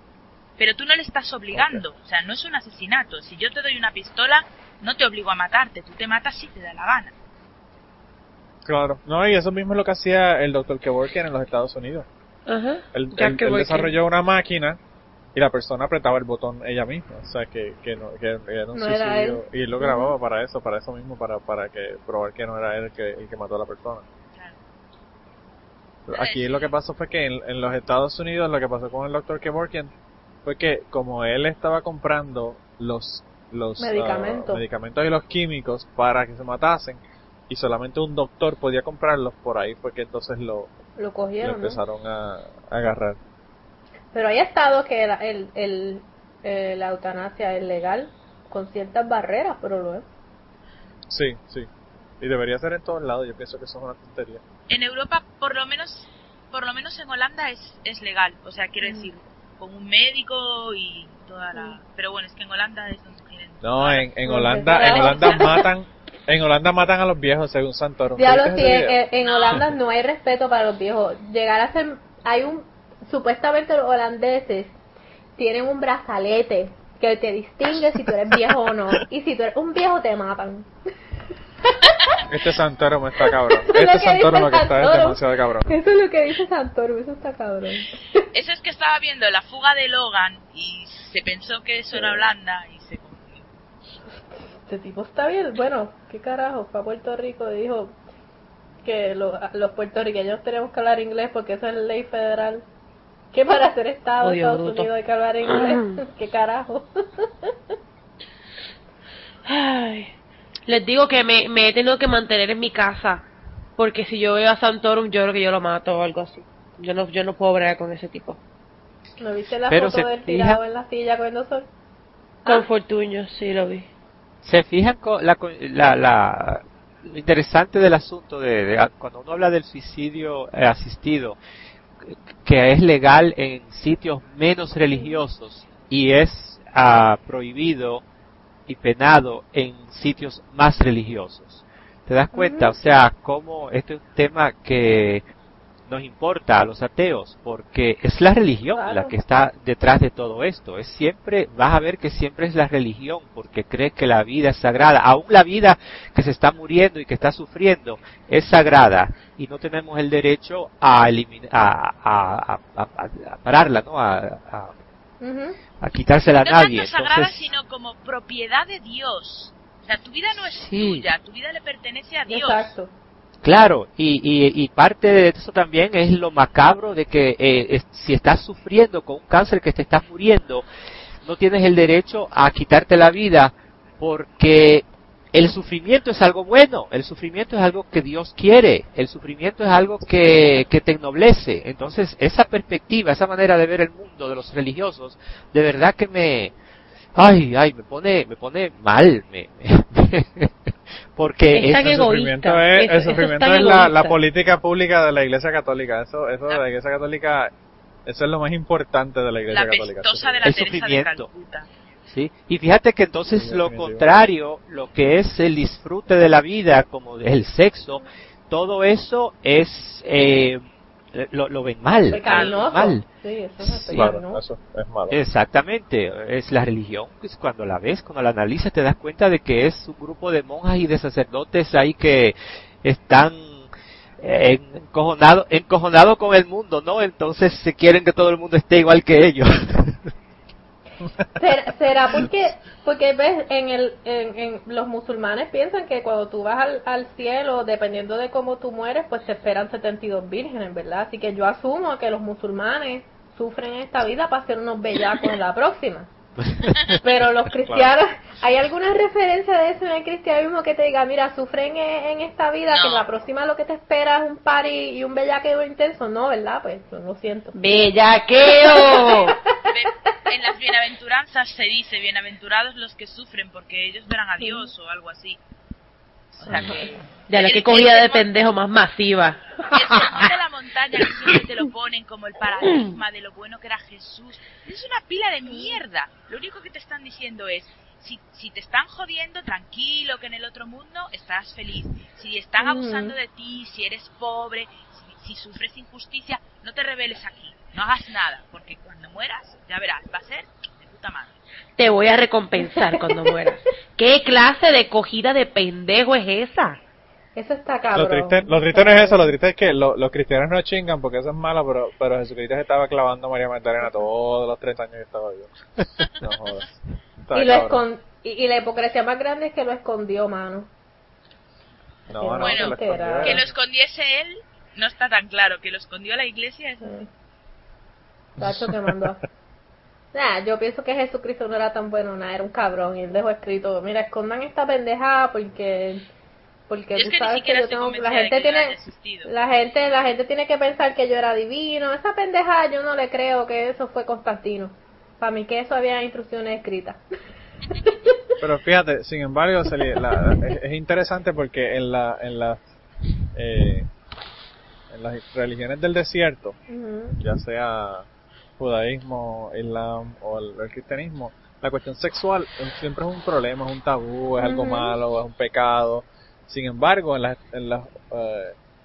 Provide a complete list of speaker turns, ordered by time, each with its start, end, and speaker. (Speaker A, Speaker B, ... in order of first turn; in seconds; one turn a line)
Speaker A: 0.6-7.1
Speaker B: 1.5-1.8
Speaker B: 8.6-12.1
Speaker C: 12.5-13.9
Speaker B: 12.9-14.8
Speaker B: 15.3-24.0
Speaker D: 18.7-20.1
Speaker B: 26.1-29.9
Speaker A: 26.1-26.7
Speaker B: 30.4-40.7
Speaker D: 33.8-34.6
Speaker D: 41.0-41.8
Speaker B: 41.4-43.2
Speaker D: 44.1-50.1
Speaker B: 51.1-51.7
Speaker B: 52.2-54.4
Speaker A: 54.7-65.5
Speaker D: 58.8-59.1
Speaker B: 63.6-69.0
Speaker D: 64.2-65.6
Speaker D: 68.2-74.8
Speaker A: 69.2-69.7
Speaker D: 75.4-80.7
Speaker B: 82.3-85.7
Speaker D: 83.2-88.0
Speaker A: 88.3-93.5
Speaker D: 91.9-92.2
Speaker D: 94.3-98.0
Speaker D: 98.8-102.7
Speaker D: 103.3-107.5
Speaker C: 104.2-104.9
Speaker C: 105.5-106.0
Speaker C: 109.5-110.1
Speaker C: 110.7-113.2
Speaker C: 113.8-118.4
Speaker D: 119.2-121.7
Speaker E: 119.7-120.6
Speaker C: 122.5-123.9
Speaker E: 124.4-131.4
Speaker E: 132.0-138.0
Speaker D: 134.9-135.2
Speaker E: 138.7-145.2
Speaker D: 142.3-142.7
Speaker E: 145.9-164.7
Speaker D: 148.7-149.2
Speaker D: 165.2-165.6
Speaker E: 165.8-167.5
Speaker A: 166.4-172.7
Speaker E: 170.3-171.1
Speaker D: 172.3-172.9
Speaker E: 173.4-180.7
Speaker E: 181.2-196.5
Speaker E: 197.1-200.5
Speaker E: 201.2-201.9
Speaker C: 201.5-204.2
Speaker B: 201.7-207.5
Speaker B: 208.1-210.5
Speaker A: 209.5-211.7
Speaker E: 210.4-211.2
Speaker E: 212.1-220.6
Speaker B: 213.3-214.0
Speaker E: 221.1-223.0
Speaker D: 222.1-224.4
Speaker A: 222.2-222.6
Speaker E: 223.6-224.1
Speaker B: 223.9-225.2
Speaker E: 225.1-233.7
Speaker E: 234.2-240.0
Speaker D: 241.4-256.1
Speaker E: 256.4-257.0
Speaker D: 257.0-267.6
Speaker B: 257.6-257.9
Speaker A: 262.7-263.1
Speaker C: 267.5-269.4
Speaker D: 268.4-269.4
Speaker A: 269.7-275.4
Speaker D: 274.4-274.7
Speaker A: 276.4-278.3
Speaker D: 276.5-276.9
Speaker C: 277.3-280.3
Speaker A: 279.7-301.4
Speaker C: 282.6-282.9
Speaker D: 285.5-285.8
Speaker D: 292.6-293.1
Speaker C: 301.8-306.8
Speaker D: 302.6-303.0
Speaker D: 307.4-309.3
Speaker B: 307.9-315.5
Speaker B: 316.2-317.8
Speaker D: 317.3-320.7
Speaker B: 322.1-323.5
Speaker D: 322.1-323.4
Speaker A: 322.4-327.0
Speaker D: 326.8-327.1
Speaker B: 328.4-329.1
Speaker D: 328.4-329.2
Speaker D: 330.1-336.1
Speaker D: 336.7-347.0
Speaker A: 336.9-339.3
Speaker B: 348.4-352.6
Speaker B: 353.3-353.9
Speaker B: 354.9-356.6
Speaker D: 356.7-357.2
Speaker B: 357.2-358.1
Speaker B: 358.6-368.6
Speaker D: 364.4-365.0